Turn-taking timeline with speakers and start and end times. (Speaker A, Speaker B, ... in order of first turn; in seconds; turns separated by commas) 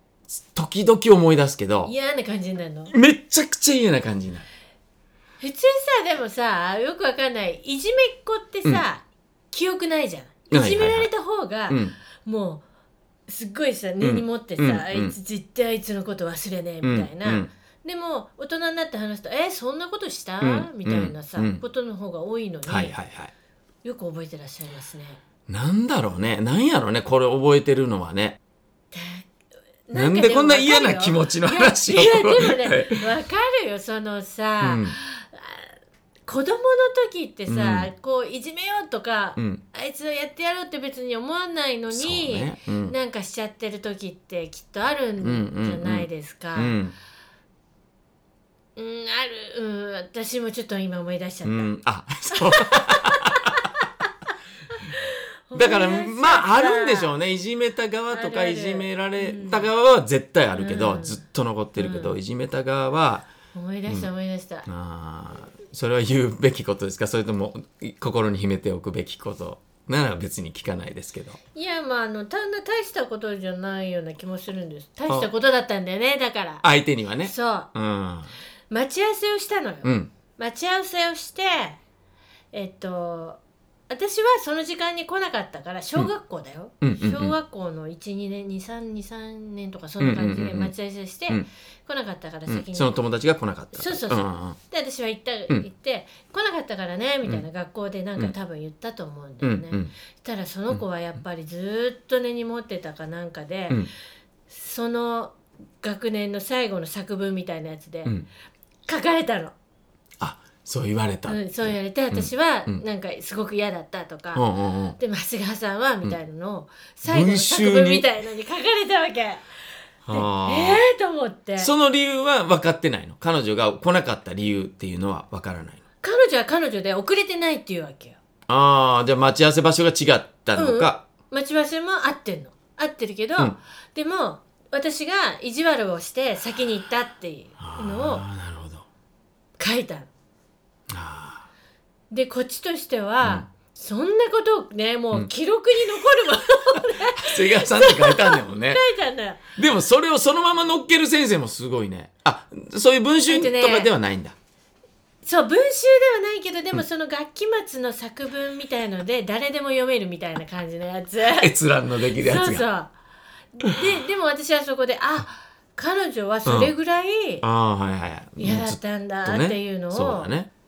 Speaker A: 0.3-1.9, Speaker B: 1.8-2.9, Speaker A: 2.9-4.5, Speaker B: 5.4-12.6, Speaker A: 10.5-11.1, Speaker A: 11.7-11.9, Speaker B: 13.3-22.9, Speaker A: 14.0-15.1, Speaker A: 16.8-17.5, Speaker A: 20.4-21.6, Speaker A: 22.6-23.3, Speaker B: 23.8-25.2, Speaker A: 25.5-28.4, Speaker B: 28.9-29.3, Speaker B: 29.9-35.7, Speaker A: 29.9-33.0, Speaker A: 34.6-35.0, Speaker B: 36.3-46.8, Speaker A: 37.5-37.9, Speaker A: 39.4-39.6, Speaker A: 41.9-42.9, Speaker A: 45.2-46.9, Speaker B: 48.8-51.7, Speaker A: 51.4-53.5, Speaker B: 52.3-53.8, Speaker B: 54.7-57.1, Speaker A: 55.5-63.3, Speaker B: 58.1-59.7, Speaker B: 60.5-61.2, Speaker B: 61.8-62.2, Speaker B: 63.5-64.7, Speaker A: 64.7-71.4, Speaker B: 71.5-76.6, Speaker A: 76.6-78.3, Speaker B: 77.2-77.7, Speaker B: 78.7-81.8, Speaker A: 79.8-80.1, Speaker B: 82.5-93.0, Speaker A: 86.8-87.3, Speaker A: 90.0-90.7, Speaker A: 92.5-94.6, Speaker B: 93.7-103.9, Speaker A: 99.4-99.9, Speaker B: 104.5-108.1, Speaker B: 108.9-109.5, Speaker A: 110.2-112.8, Speaker B: 111.3-114.4, Speaker A: 114.3-115.0, Speaker B: 115.0-119.5, Speaker A: 117.0-118.0, Speaker A: 120.0-120.8, Speaker B: 120.1-121.7, Speaker A: 121.6-125.8, Speaker B: 126.0-128.2, Speaker A: 128.5-131.0, Speaker B: 130.6-138.2, Speaker A: 137.6-138.8, Speaker B: 139.6-140.1, Speaker A: 140.9-141.5, Speaker B: 142.1-149.4, Speaker A: 146.8-148.8, Speaker A: 149.6-154.3, Speaker B: 153.3-153.9, Speaker B: 155.2-161.5, Speaker A: 161.3-162.7, Speaker B: 162.1-162.9, Speaker B: 163.6-167.4, Speaker A: 166.4-166.7, Speaker A: 167.4-170.5, Speaker B: 168.4-170.3